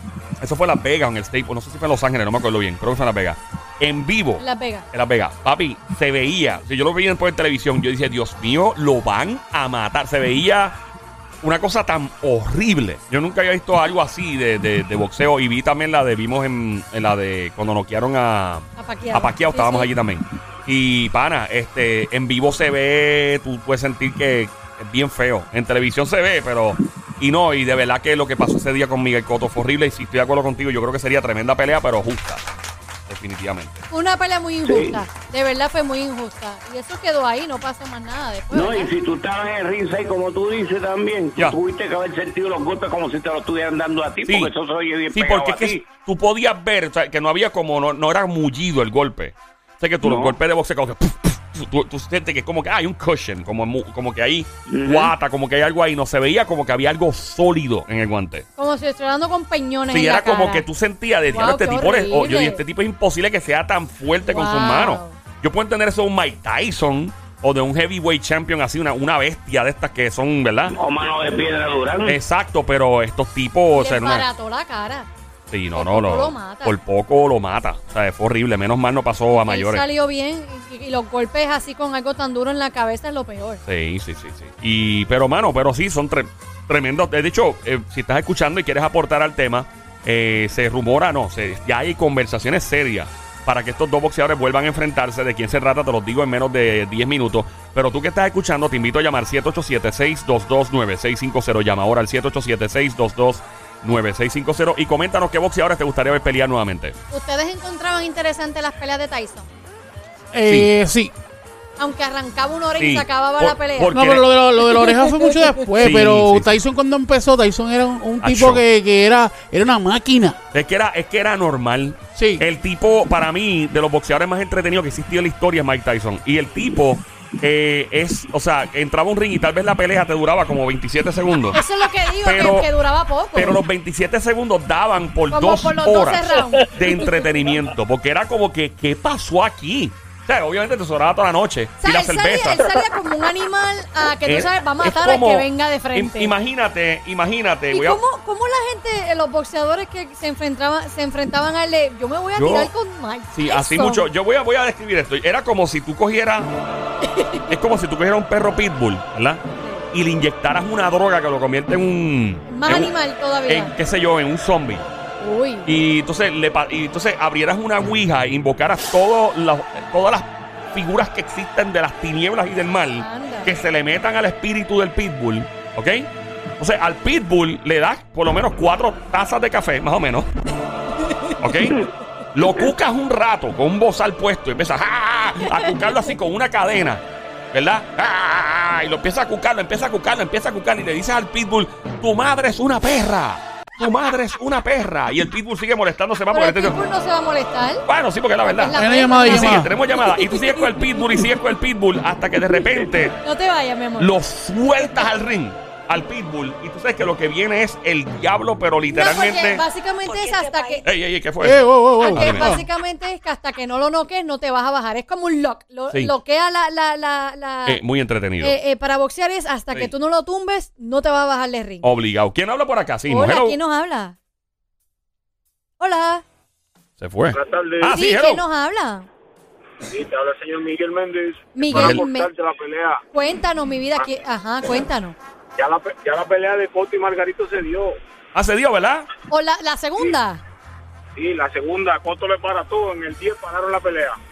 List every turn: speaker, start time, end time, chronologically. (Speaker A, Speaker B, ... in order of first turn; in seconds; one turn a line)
Speaker A: 0.4-10.8
Speaker B: 4.4-4.8
Speaker A: 11.4-32.4
Speaker B: 18.8-19.9
Speaker A: 33.1-33.8
Speaker B: 33.9-38.9
Speaker C: 34.6-35.0
Speaker C: 38.5-45.8
Speaker A: 44.2-44.5
Speaker A: 45.1-58.5
Speaker C: 50.0-50.4
Speaker C: 54.7-55.1
Speaker B: 58.6-60.6
Speaker A: 59.9-70.8
Speaker B: 61.3-62.6
Speaker B: 64.2-65.2
Speaker C: 70.7-72.2
Speaker A: 72.0-74.2
Speaker B: 73.7-75.1
Speaker A: 75.5-79.8
Speaker B: 75.7-76.8
Speaker B: 79.3-83.6
Speaker A: 83.7-107.0
Speaker B: 107.1-109.5
Speaker D: 110.3-111.1
Speaker B: 111.8-114.0
Speaker A: 112.8-114.3
Speaker D: 113.9-120.4
Speaker B: 114.6-115.6
Speaker A: 115.8-116.5
Speaker A: 118.2-118.6
Speaker A: 120.5-131.6
Speaker D: 122.2-122.5
Speaker B: 131.5-133.6
Speaker A: 132.2-132.7
Speaker A: 133.3-142.8
Speaker B: 135.3-137.2
Speaker B: 141.8-146.3
Speaker A: 144.2-148.0
Speaker B: 147.7-154.1
Speaker A: 152.3-152.7
Speaker A: 153.3-156.5
Speaker B: 157.0-157.5
Speaker A: 157.5-159.4
Speaker B: 159.5-159.8
Speaker A: 159.9-162.9
Speaker B: 162.5-163.7
Speaker A: 163.5-164.8
Speaker B: 165.2-165.7
Speaker A: 165.7-180.3
Speaker B: 173.0-173.5
Speaker B: 181.0-181.4
Speaker A: 181.4-196.8
Speaker B: 196.3-197.8
Speaker A: 197.9-203.2
Speaker B: 198.4-201.0
Speaker D: 198.7-199.7
Speaker B: 203.2-204.1
Speaker A: 204.0-209.6
Speaker B: 208.9-210.9
Speaker A: 210.8-212.5
Speaker D: 211.4-212.7
Speaker B: 212.0-217.8
Speaker A: 217.7-218.6
Speaker B: 218.4-221.9
Speaker A: 221.8-223.6
Speaker B: 223.1-224.2
Speaker B: 225.8-226.2
Speaker A: 227.0-228.4
Speaker E: 227.3-227.9
Speaker B: 227.9-229.1
Speaker E: 229.8-233.0
Speaker B: 231.5-232.3
Speaker A: 231.7-232.0
Speaker B: 233.1-235.2
Speaker E: 235.6-238.0
Speaker A: 238.3-239.1
Speaker B: 239.3-240.4
Speaker E: 241.2-244.2